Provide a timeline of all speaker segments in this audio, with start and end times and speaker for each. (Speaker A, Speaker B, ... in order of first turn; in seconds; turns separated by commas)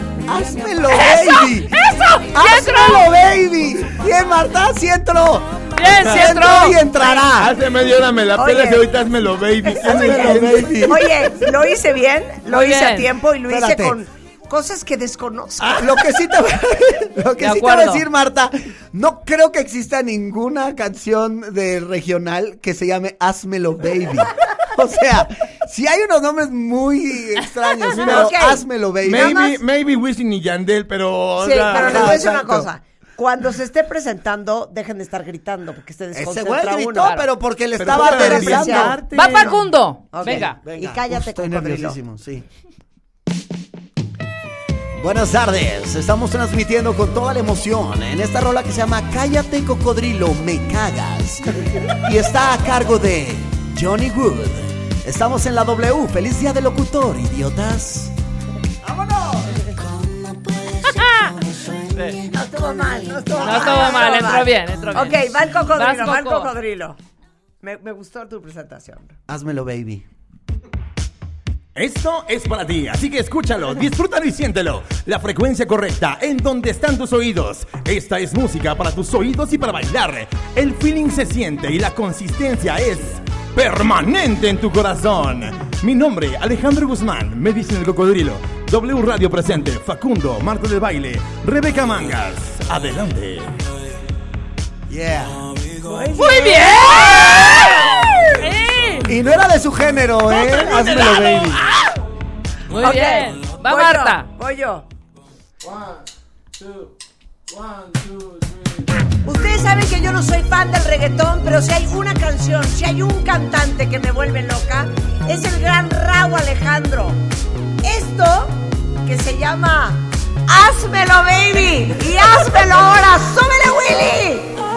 Speaker A: 0.3-1.8, Speaker B: 0.5-1.2, Speaker C: 1.0-3.1, Speaker A: 2.3-7.5, Speaker C: 5.8-6.8, Speaker D: 7.3-10.8, Speaker B: 8.3-8.9, Speaker A: 9.8-11.1, Speaker B: 9.8-16.0, Speaker C: 12.5-13.1, Speaker A: 13.5-14.0, Speaker A: 15.6-29.5, Speaker C: 17.4-18.1, Speaker B: 27.9-29.6, Speaker D: 27.9-28.4, Speaker D: 29.0-32.4, Speaker B: 31.4-37.1, Speaker A: 31.7-32.7, Speaker A: 36.1-39.0, Speaker C: 37.0-37.3, Speaker D: 37.8-39.6, Speaker B: 37.8-39.0, Speaker C: 39.1-40.6, Speaker B: 40.1-42.0, Speaker A: 40.3-42.5, Speaker A: 44.9-58.1, Speaker A: 58.8-59.7, Speaker C: 60.9-61.2, Speaker B: 62.3-67.0, Speaker A: 63.4-63.9, Speaker C: 63.4-66.5, Speaker B: 67.6-69.2, Speaker A: 69.3-70.0, Speaker D: 71.7-93.6, Speaker A: 94.9-95.4, Speaker B: 95.8-98.0, Speaker C: 96.1-99.1, Speaker A: 99.0-101.6, Speaker D: 100.4-101.4, Speaker C: 102.7-104.3, Speaker B: 102.8-104.9, Speaker B: 109.2-117.2, Speaker B: 117.8-124.6